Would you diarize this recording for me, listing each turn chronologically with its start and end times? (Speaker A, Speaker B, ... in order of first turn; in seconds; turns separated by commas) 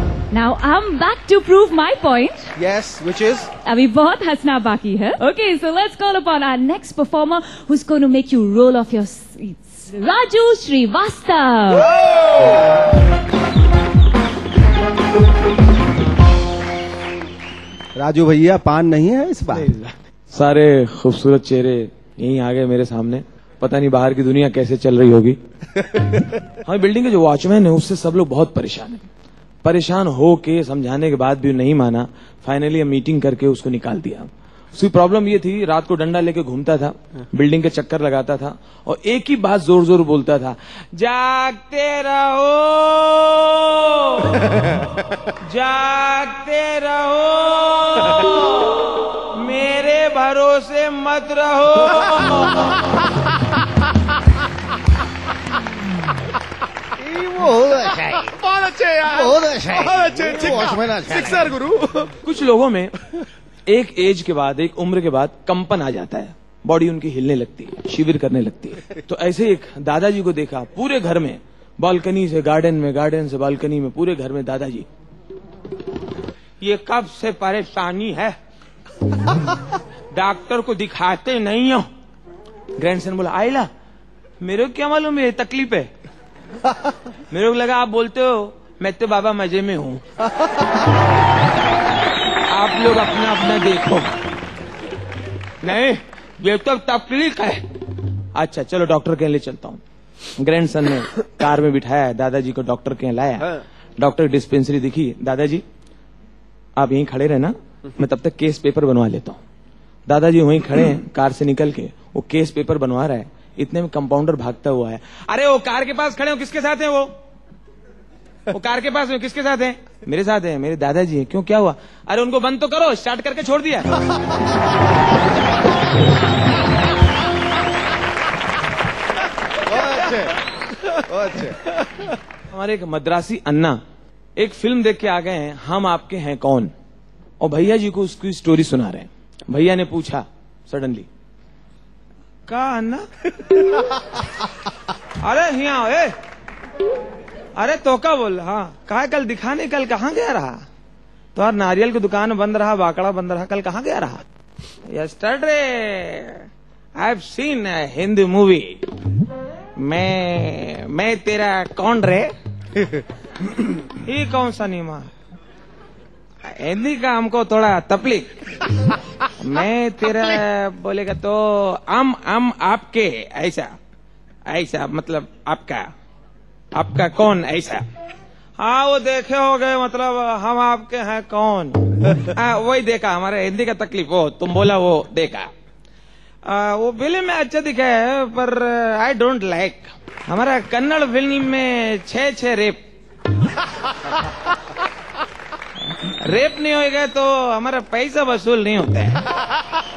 Speaker A: 0.3-2.5, Speaker B: 2.5-3.5, Speaker A: 3.6-11.9, Speaker B: 17.9-19.7, Speaker C: 19.5-25.4, Speaker C: 26.6-29.1, Speaker C: 29.6-44.7, Speaker C: 45.4-53.0, Speaker B: 57.0-58.3, Speaker D: 58.6-59.1, Speaker B: 59.0-61.6, Speaker D: 60.0-60.4, Speaker D: 61.1-62.1, Speaker C: 62.2-62.9, Speaker C: 63.7-74.8, Speaker C: 76.6-78.3, Speaker C: 80.1-81.9, Speaker C: 82.8-83.7, Speaker C: 84.4-85.9, Speaker C: 87.3-90.0, Speaker C: 92.5-94.2, Speaker C: 95.6-97.7, Speaker C: 98.3-99.8, Speaker C: 100.4-105.6, Speaker C: 106.8-109.4, Speaker C: 110.1-117.1, Speaker C: 118.5-124.0, Speaker B: 129.7-131.7, Speaker C: 132.5-133.8, Speaker C: 134.4-136.7, Speaker C: 137.4-141.1, Speaker C: 142.5-143.8, Speaker C: 145.2-146.2, Speaker C: 147.6-150.6, Speaker C: 151.3-154.2, Speaker C: 154.8-158.9, Speaker C: 159.8-162.3, Speaker C: 163.5-165.1, Speaker C: 166.4-168.5, Speaker C: 169.4-173.7, Speaker C: 174.5-175.9, Speaker C: 176.7-177.8, Speaker C: 178.6-185.5, Speaker C: 186.4-192.8, Speaker C: 196.1-199.2